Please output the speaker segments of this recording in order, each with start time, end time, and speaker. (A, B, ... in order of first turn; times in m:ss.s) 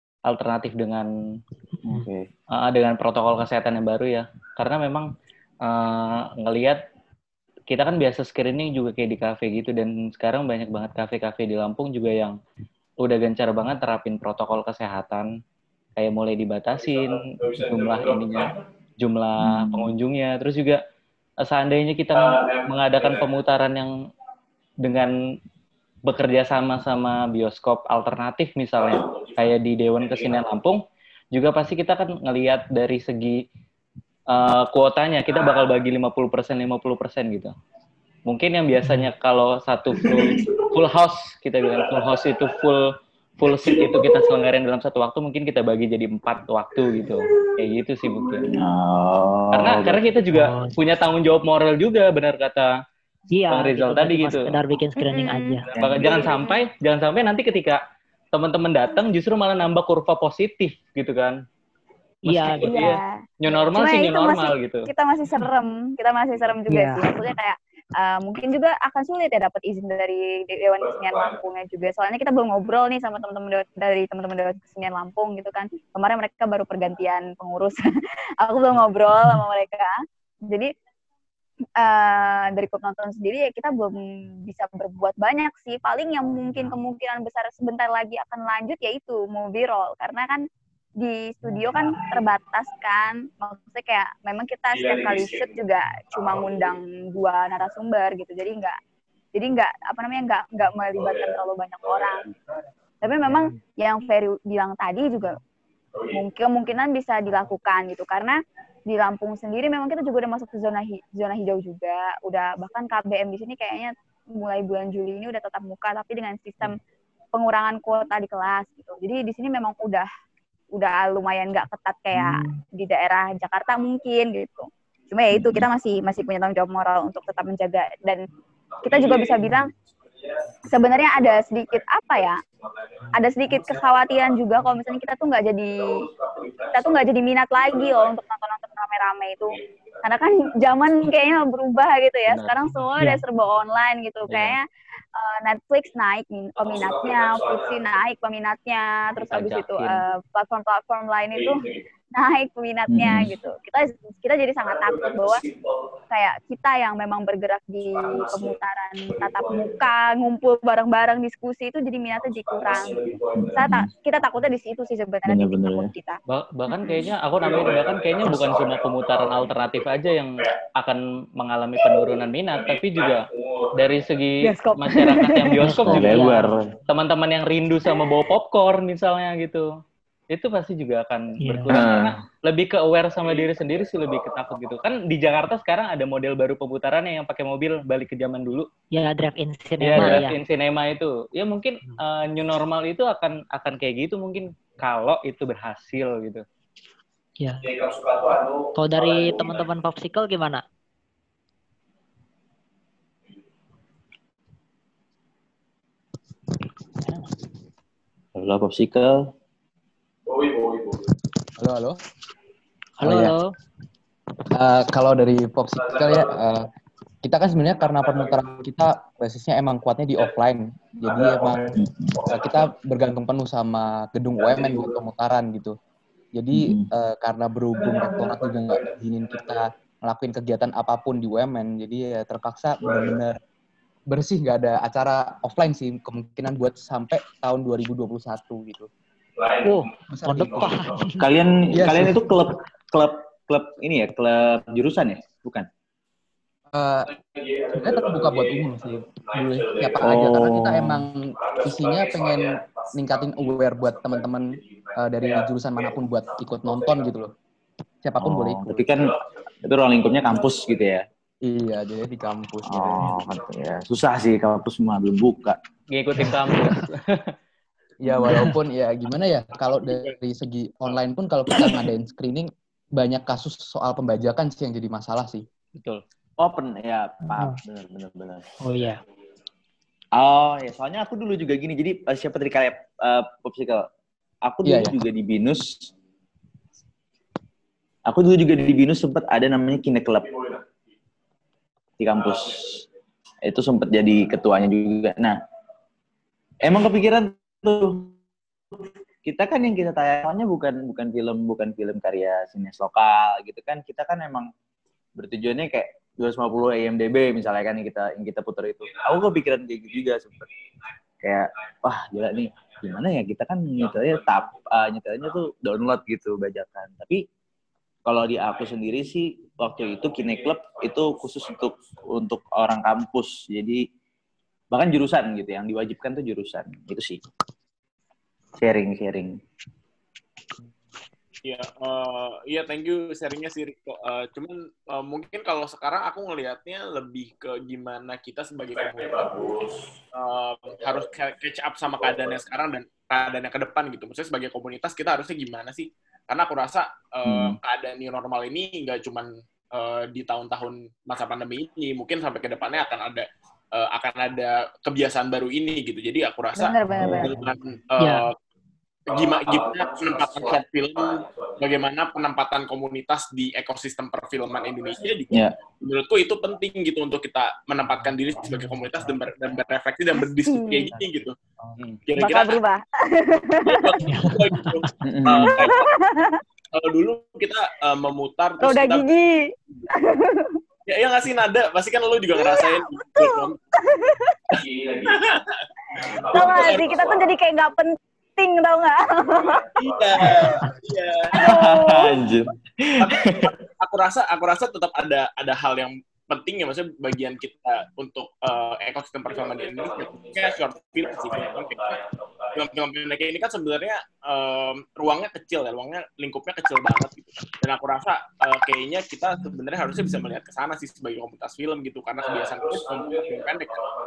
0:00.2-0:01.1 A
0:01.8-0:02.3 B
0:02.5-0:05.1 A
0:05.6-0:06.8 A
0:07.7-0:12.4 A
0:13.0-0:15.4 A
0:16.0-0:20.8 A
0:19.4-0:19.9 B
0:21.4-0:23.9 A
0:24.8-0:25.1 A
0:26.0-0:33.4 A
0:34.3-0:37.5 A
0:38.2-0:48.5 A
0:48.4-0:50.0 B
0:49.5-0:52.7 A
0:50.3-0:50.7 C
0:53.3-0:55.6 C
0:53.5-0:54.6 A
0:55.0-0:56.6 D
0:55.7-0:56.2 B
0:55.8-0:57.8 A
0:58.3-1:01.4 A
1:02.2-1:04.9 A
1:02.3-1:03.0 C
1:02.6-1:03.1 D
1:03.7-1:17.8 D
1:06.7-1:07.1 C
1:18.4-1:19.9 D
1:20.5-1:20.7 D
1:21.8-1:30.4 D
1:31.0-1:38.8 D
1:39.3-1:42.3 D
1:43.0-1:45.4 D
1:46.1-1:48.4 D
1:48.9-1:56.7 D
1:57.3-2:00.1 D
2:00.7-2:08.2 D
2:02.1-2:02.6 B
2:05.3-2:05.6 B
2:08.8-2:09.7 D
2:10.6-2:12.4 D
2:13.1-2:16.0 D
2:16.7-2:35.5 D
2:22.2-2:22.6 A
2:24.3-2:24.6 A
2:29.2-2:30.0 A
2:32.9-2:33.3 B
2:36.1-2:46.2 D
2:43.3-2:43.9 B
2:45.2-2:45.9 B
2:46.3-2:56.3 A
2:54.4-2:55.5 D
2:55.6-2:56.5 C
2:55.7-2:56.7 B
2:56.9-2:59.7 A
3:00.3-3:08.7 A
3:01.4-3:01.7 C
3:01.7-3:02.2 B
3:08.9-3:10.3 C
3:09.8-3:16.4 A
3:17.4-3:17.7 C
3:18.7-3:20.6 C
3:28.3-3:29.3 B
3:31.6-3:32.0 E
3:33.0-3:33.5 C
3:33.0-3:33.3 E
3:34.5-3:36.7 E
3:37.2-3:41.7 E
3:41.7-3:42.2 B
3:42.3-3:45.8 E
3:46.3-3:53.4 E
3:46.5-3:46.9 B
3:54.1-3:58.9 E
3:59.6-4:01.2 C
4:00.1-4:00.7 E
4:01.2-4:05.7 B
4:01.7-4:02.2 E
4:06.7-4:07.2 E
4:07.7-4:17.3 E
4:10.0-4:11.0 B
4:18.0-4:18.8 E
4:18.2-4:21.0 B
4:21.4-4:23.1 E
4:22.6-4:25.6 B
4:25.9-4:27.3 A
4:28.0-4:35.4 E
4:28.2-4:28.5 C
4:29.9-4:30.1 F
4:35.7-4:36.0 A
4:36.4-4:38.5 B
4:38.6-4:39.0 C
4:40.1-4:43.8 B
4:44.4-4:45.9 B
4:44.6-4:44.9 E
4:48.0-4:50.4 B
4:52.0-4:52.8 B
4:53.4-4:55.4 B
4:56.6-4:58.1 B
4:59.2-5:04.5 B
5:05.2-5:10.5 B
5:11.2-5:17.2 B
5:18.0-5:23.8 B
5:24.7-5:27.2 B
5:28.6-5:29.4 B
5:31.4-5:39.6 F
5:40.1-5:58.4 F
5:47.2-5:47.6 B
5:56.5-5:57.4 D
5:57.0-5:57.3 B
5:58.0-5:58.2 C
5:59.1-6:11.4 F
6:05.3-6:05.5 B
6:10.2-6:11.0 D
6:12.0-6:12.6 F
6:12.2-6:14.0 D
6:13.6-6:15.9 F
6:14.1-6:14.8 C
6:15.0-6:15.6 B
6:15.6-6:16.4 D
6:16.7-6:19.0 F
6:18.6-6:20.6 D
6:20.9-6:23.6 F
6:22.3-6:24.4 D
6:24.7-6:25.4 F
6:26.2-6:27.0 F
6:26.3-6:29.7 D
6:29.8-6:31.5 F
6:31.3-6:32.2 D
6:31.4-6:33.5 B
6:33.0-6:42.0 F
6:42.5-6:53.9 F